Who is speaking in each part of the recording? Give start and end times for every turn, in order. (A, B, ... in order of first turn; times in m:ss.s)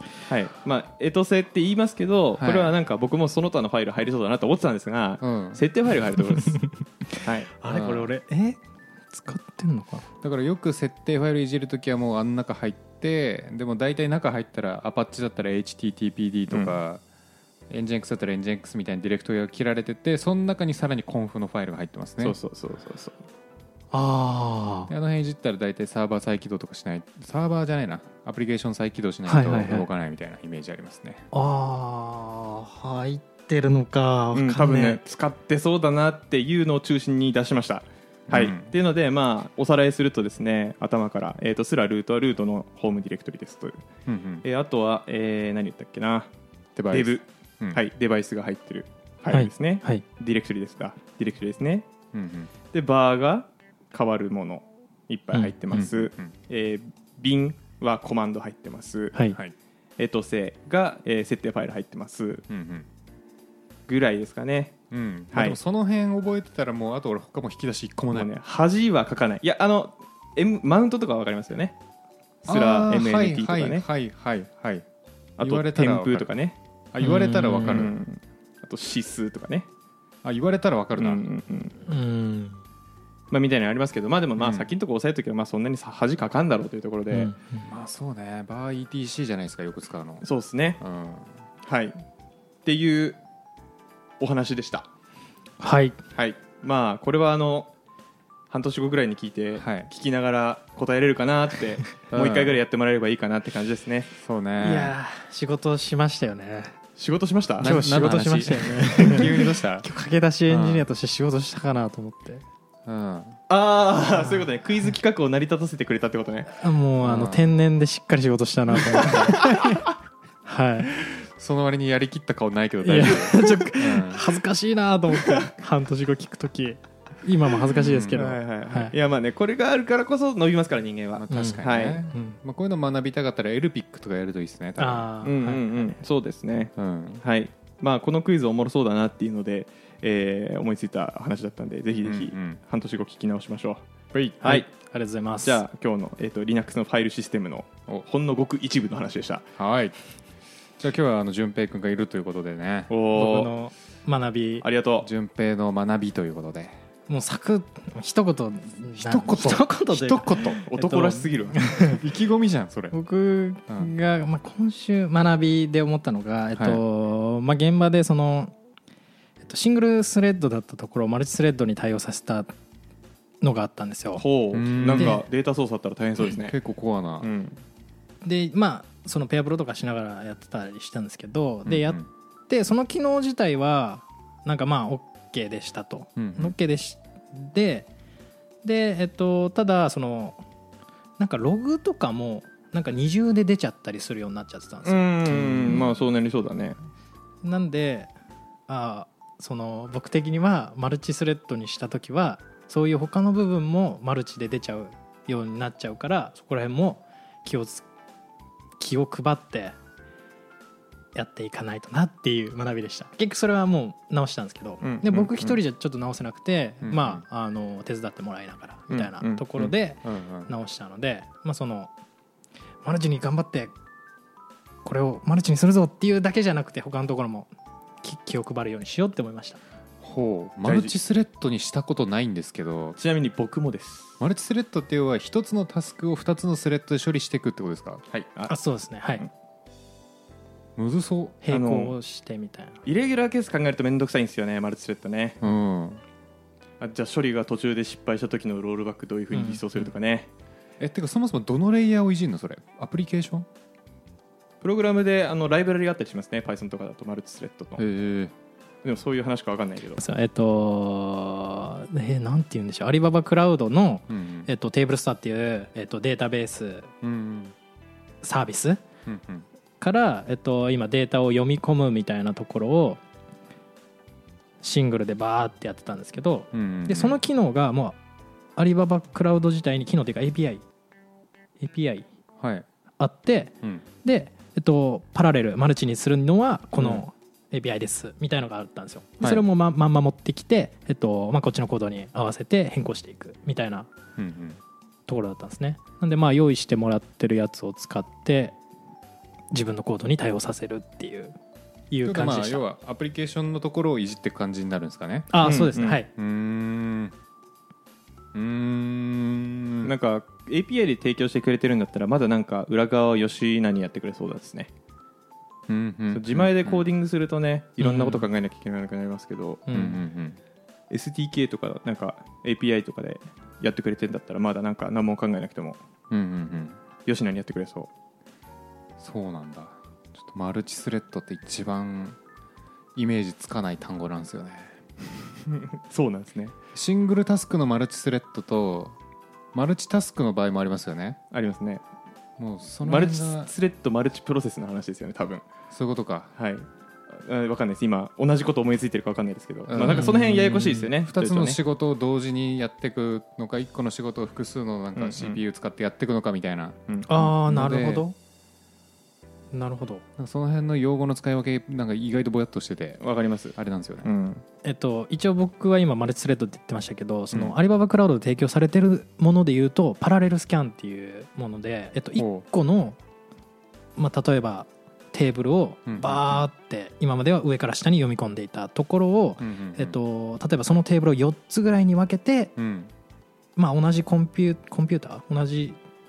0:00.3-0:06.6 A
0:02.4-0:02.7 B
0:05.2-0:05.6 B
0:07.2-0:07.5 A
0:07.6-0:08.6 C
0:07.7-0:08.1 B
0:09.1-0:10.0 C
0:10.2-0:17.0 B
0:16.5-0:16.8 A
0:17.7-0:22.4 B
0:22.2-0:23.2 A
0:23.9-0:24.9 C
0:24.9-0:31.3 B
0:29.3-0:29.9 C
0:31.3-0:35.0 C
0:34.3-0:43.8 A
0:38.3-0:38.7 B
0:44.1-0:44.4 B
0:44.4-0:46.3 A
0:46.8-0:47.8 B
0:46.9-0:51.9 A
0:49.3-0:50.0 C
0:52.1-0:52.5 B
0:52.7-0:59.2 A
0:55.7-0:56.3 B
1:00.0-1:02.5 A
1:02.5-1:02.9 B
1:03.9-1:04.8 A
1:04.9-1:08.3 B
1:05.3-1:05.6 A
1:08.1-1:11.8 A
1:12.4-1:13.8 A
1:12.5-1:14.8 B
1:15.4-1:16.6 A
1:15.4-1:16.3 B
1:16.9-1:18.0 B
1:17.0-1:17.8 C
1:17.5-1:19.7 A
1:20.2-1:21.2 B
1:21.0-1:21.8 A
1:21.9-1:22.6 C
1:23.3-1:27.3 A
1:24.4-1:24.7 B
1:27.1-1:27.7 C
1:27.6-1:30.3 B
1:30.2-1:30.8 A
1:30.8-1:31.4 B
1:31.6-1:32.0 A
1:32.6-1:33.2 A
1:34.2-1:34.9 A
1:35.6-1:36.0 C
1:36.2-1:37.7 A
1:38.5-1:44.1 A
1:39.6-1:39.9 B
1:42.1-1:42.6 B
1:44.2-1:45.0 B
1:44.6-1:46.8 C
1:47.0-1:48.2 A
1:47.6-1:49.9 B
1:47.6-1:52.4 C
1:49.0-1:49.3 A
1:50.5-1:50.9 B
1:52.9-1:53.4 B
1:53.5-1:56.5 A
1:56.6-1:59.9 C
1:57.0-1:57.5 B
2:00.5-2:00.9 C
2:01.1-2:04.3 B
2:02.8-2:08.9 C
2:07.8-2:08.2 B
2:08.1-2:12.0 A
2:11.2-2:15.1 B
2:11.3-2:12.4 C
2:14.8-2:16.0 C
2:15.2-2:24.7 A
2:16.8-2:17.2 B
2:22.0-2:22.6 B
2:24.4-2:25.6 C
2:25.4-2:29.5 A
2:29.6-2:30.0 B
2:30.8-2:32.9 B
2:32.9-2:33.5 A
2:33.1-2:34.6 C
2:34.6-2:35.1 A
2:35.0-2:36.8 B
2:37.1-2:42.0 C
2:39.0-2:40.6 B
2:40.7-2:41.7 A
2:41.7-2:43.0 B
2:42.9-2:48.5 C
2:43.7-2:43.9 B
2:46.6-2:46.8 B
2:49.4-2:52.5 C
2:53.4-2:54.2 C
2:54.2-2:56.6 A
2:54.5-2:55.2 B
2:54.9-2:55.2 C
2:56.2-2:57.3 B
2:57.2-2:57.6 A
2:58.2-3:07.9 C
3:01.6-3:02.1 B
3:06.2-3:06.5 B
3:08.6-3:10.4 C
3:11.2-3:15.1 C
3:14.8-3:16.8 A
3:15.3-3:15.9 B
3:17.4-3:18.1 C
3:18.7-3:27.8 C
3:28.8-3:29.8 C
3:31.2-3:41.9 C
3:34.8-3:35.6 A
3:36.8-3:37.2 B
3:38.9-3:39.4 A
3:39.6-3:40.5 B
3:42.8-3:43.7 C
3:44.8-3:47.5 C
3:48.0-3:49.6 C
3:50.0-3:53.0 B
3:50.6-3:50.9 A
3:53.0-3:54.2 A
3:54.2-3:58.0 B
3:58.1-3:58.5 A
3:58.5-3:59.2 C
4:00.8-4:01.4 B
4:01.4-4:02.8 C
4:01.5-4:02.0 A
4:02.8-4:05.4 A
4:05.4-4:06.0 B
4:06.8-4:10.3 A
4:09.3-4:09.8 C
4:10.8-4:13.5 B
4:14.6-4:17.8 A
4:17.8-4:18.3 B
4:18.8-4:20.0 A
4:20.0-4:26.9 C
4:24.1-4:24.5 B
4:27.0-4:27.5 B
4:28.2-4:28.8 C
4:29.1-4:29.5 B
4:29.8-4:33.0 C
4:34.6-4:38.0 C
4:36.5-4:37.2 B
4:38.6-4:40.6 C
4:41.6-4:42.1 C
4:42.4-4:42.7 B
4:43.0-4:53.9 C
4:46.8-4:47.0 B
4:54.2-4:54.6 B
4:55.1-4:58.6 C
4:59.5-5:01.4 C
5:01.9-5:02.6 C
5:02.0-5:07.2 B
5:05.3-5:06.1 C
5:05.4-5:06.0 A
5:08.3-5:09.9 B
5:09.8-5:14.7 A
5:15.7-5:16.9 B
5:16.1-5:19.6 A
5:17.8-5:18.3 C
5:19.7-5:20.0 C
5:19.7-5:20.4 B
5:20.9-5:25.8 A
5:26.1-5:26.8 B
5:27.1-5:27.9 A
5:29.0-5:32.2 B
5:33.0-5:35.1 B
5:35.5-5:36.6 A
5:36.7-5:39.0 B
5:39.5-5:41.2 B
5:41.3-5:41.8 A
5:42.4-5:43.5 B
5:42.8-5:45.4 A
5:45.7-5:46.3 B
5:46.4-5:51.6 A
5:49.7-5:58.1 B
5:49.8-5:50.8 C
5:55.0-5:55.4 A
5:57.1-5:58.2 C
5:59.5-6:00.0 C
6:00.2-6:03.0 B
6:03.0-6:04.4 A
6:03.6-6:04.1 B
6:04.6-6:13.0 C
6:12.2-6:12.4 B
6:14.0-6:22.5 C
6:15.9-6:16.5 B
6:19.4-6:20.0 B
6:22.6-6:22.9 B
6:23.6-6:25.8 C